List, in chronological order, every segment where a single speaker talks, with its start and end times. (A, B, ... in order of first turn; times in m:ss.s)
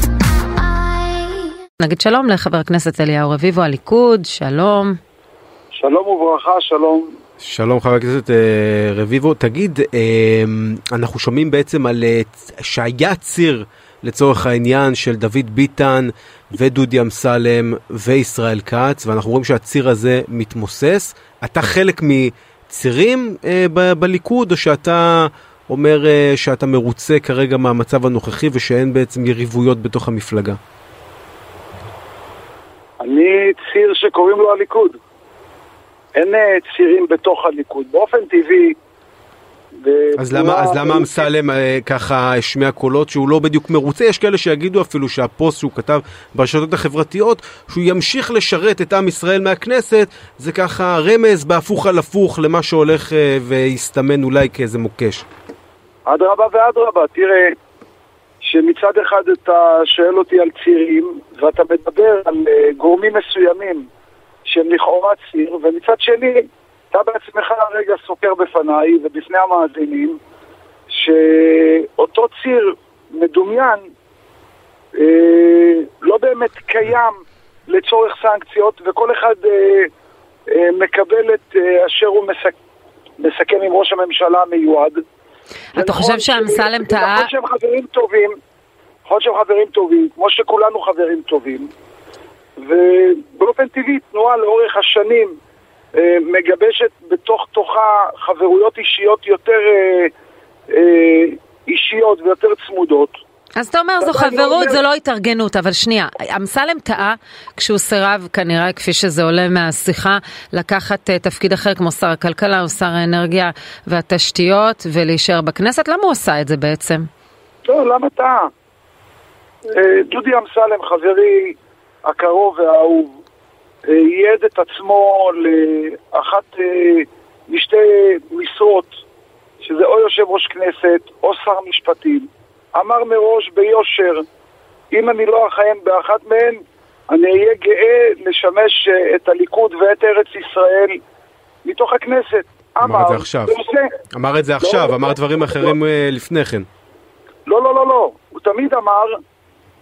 0:01.8-0:05.0 A
0:05.7-0:07.1 B
0:07.4-0:30.6 C
0:33.0-0:35.0 B
0:36.2-0:38.8 B
0:39.8-0:41.3 B
0:40.2-0:55.2 C
0:56.1-0:57.5 B
0:58.4-1:03.9 B
1:04.4-1:10.2 B
1:10.9-1:13.9 B
1:15.0-1:17.2 B
1:17.7-1:19.9 B
1:20.5-1:22.6 B
1:23.2-1:25.0 B
1:25.8-1:27.3 A
1:25.8-1:28.4 B
1:29.1-1:31.7 B
1:32.6-1:35.4 B
1:36.0-1:40.1 B
1:40.7-1:43.2 B
1:43.6-1:57.1 A
1:44.0-1:44.8 B
1:57.7-1:58.5 B
1:59.7-2:03.2 B
2:03.9-2:09.0 B
2:09.6-2:14.3 B
2:14.9-2:21.0 B
2:21.6-2:23.9 B
2:22.8-2:23.6 C
2:24.1-2:26.7 C
2:24.6-2:25.7 B
2:27.5-2:29.2 B